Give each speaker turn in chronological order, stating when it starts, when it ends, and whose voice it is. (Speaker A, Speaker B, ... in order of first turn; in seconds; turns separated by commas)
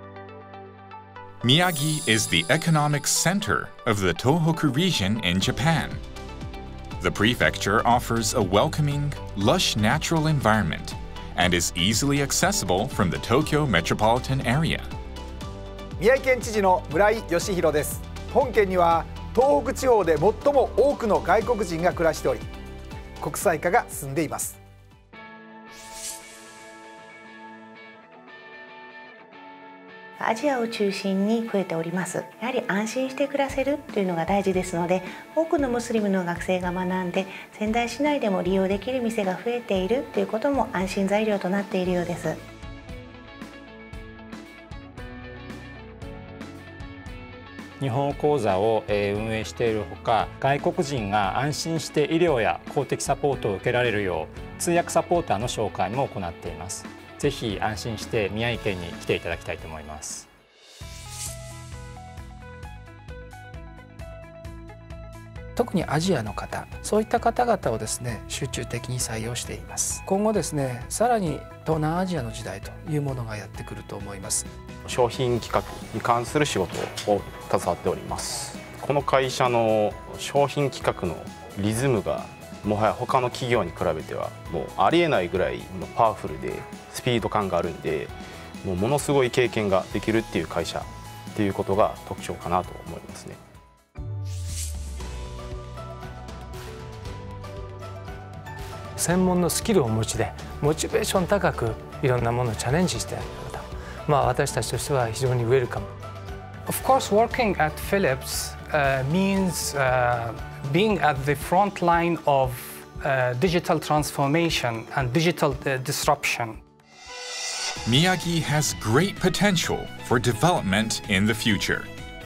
Speaker A: 1.4-6.0, Speaker A: 7.0-14.9, Speaker B: 16.0-22.4, Speaker B: 23.2-24.6, Speaker C: 30.2-42.4, Speaker D: 47.8-60.3, Speaker E: 65.5-74.5, Speaker F: 74.8-93.4, Speaker G: 99.0-105.9, Speaker H: 106.7-116.6, Speaker A: 117.9-121.9